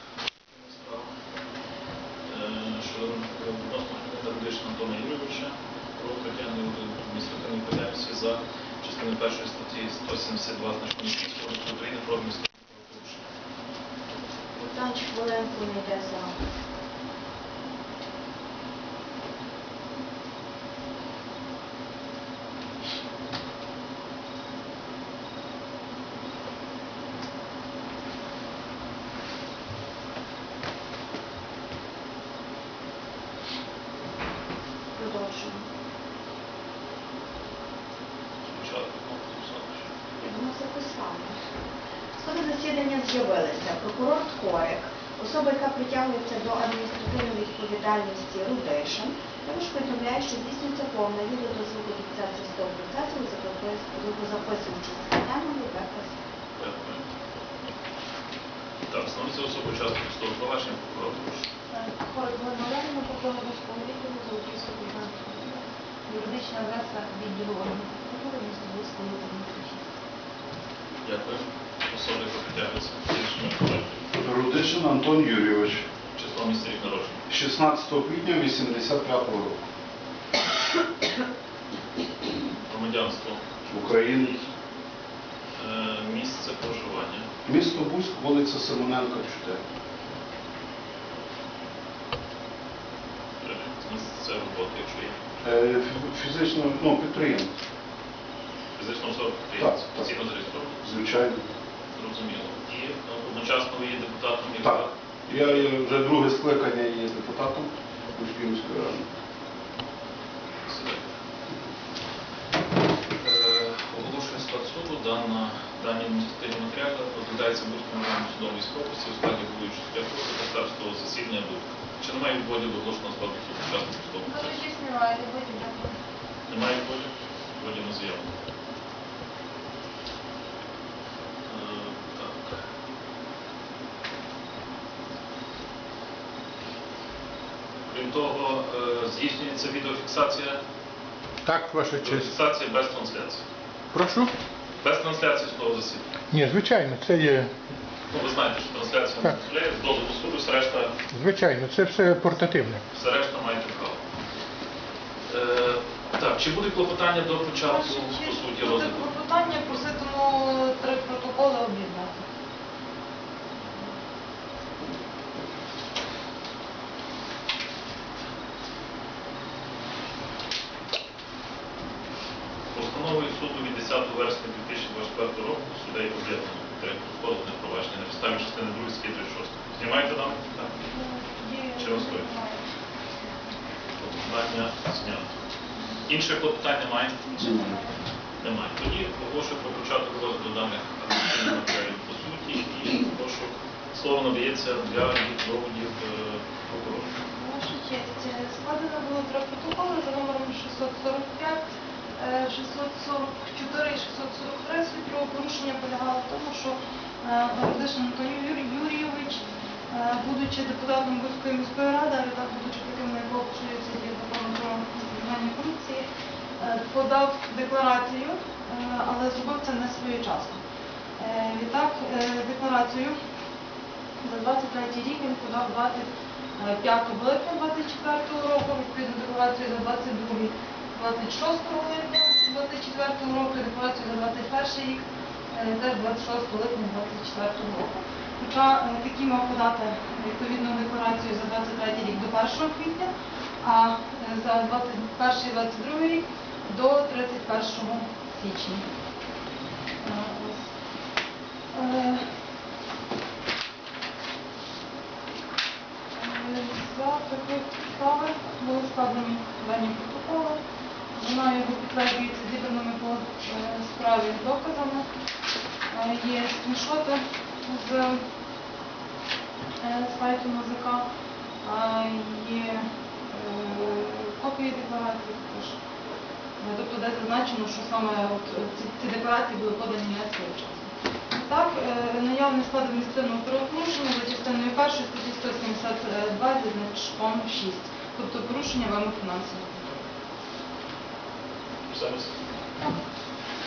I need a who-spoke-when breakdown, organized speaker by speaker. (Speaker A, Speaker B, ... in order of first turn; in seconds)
Speaker A: 0.5-1.1, 2.3-13.3, 38.4-39.8, 56.6-57.0, 58.9-61.5, 71.0-74.0, 76.2-77.2, 82.7-83.4, 85.5-87.3, 93.4-95.2, 98.8-100.8, 101.9-104.9, 110.7-111.0, 113.2-124.5, 126.5-128.3, 131.4-132.6, 137.9-140.6, 141.9-143.4, 144.8-146.0, 148.1-150.9, 152.9-154.0, 155.3-159.1, 172.7-180.8, 181.8-182.3, 184.0-185.3, 186.1-187.4, 188.4-197.1, 291.9-292.3
Speaker B: 14.5-16.4, 34.9-35.6, 40.2-41.4, 42.1-56.1
Speaker C: 61.7-69.8, 124.2-126.0, 157.6-162.2, 180.9-182.6, 187.3-187.9, 197.3-201.6, 202.2-216.1, 216.6-220.6, 221.2-223.2, 224.2-248.8, 250.0-250.7, 251.7-252.2, 256.1-260.6, 261.1-265.1, 265.9-268.2, 269.8-271.0, 271.6-275.8, 276.6-289.9
Speaker D: 74.1-75.8, 77.3-79.6, 83.7-84.4, 87.5-89.6, 95.4-97.5, 99.6-100.1, 100.8-101.4, 104.6-109.0, 187.4-187.8
Speaker E: 141.4-142.3, 143.9-144.3, 146.3-147.5, 151.1-152.8